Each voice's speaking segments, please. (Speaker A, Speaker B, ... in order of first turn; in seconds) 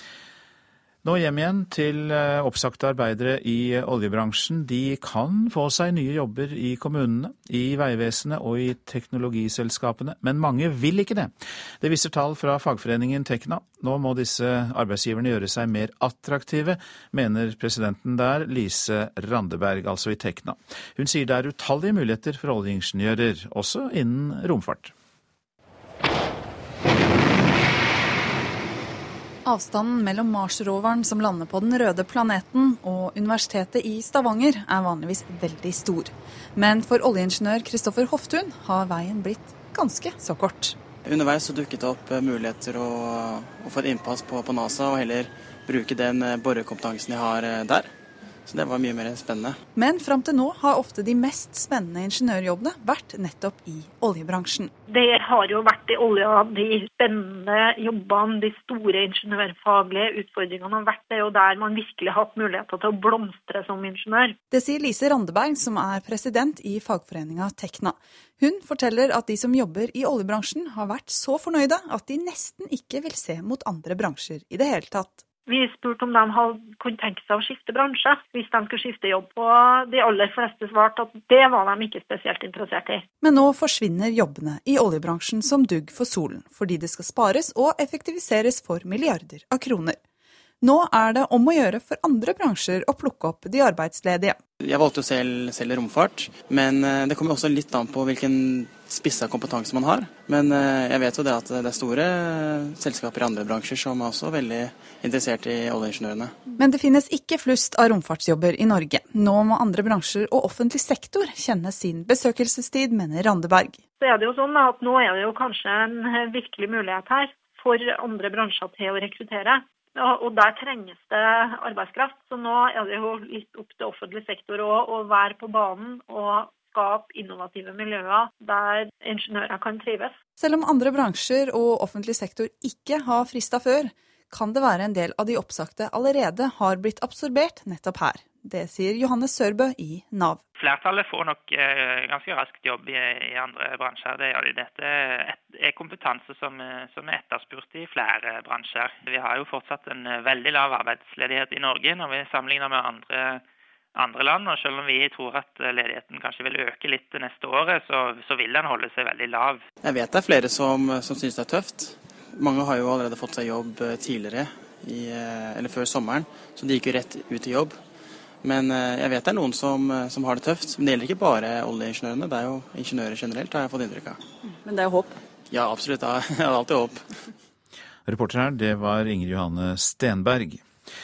Speaker A: 1.0-24.9, 178.1-180.6
Speaker B: 29.4-40.8, 49.7-54.7, 64.5-75.2, 83.2-90.0, 90.6-94.4, 106.6-113.8, 130.4-140.4, 174.6-175.1
Speaker C: 41.0-47.9, 48.5-49.6, 94.6-106.3, 159.8-167.8, 168.4-174.2, 175.5-177.2
Speaker D: 54.9-64.3, 75.5-83.0, 114.0-130.2
Speaker E: 140.6-153.4, 153.9-159.6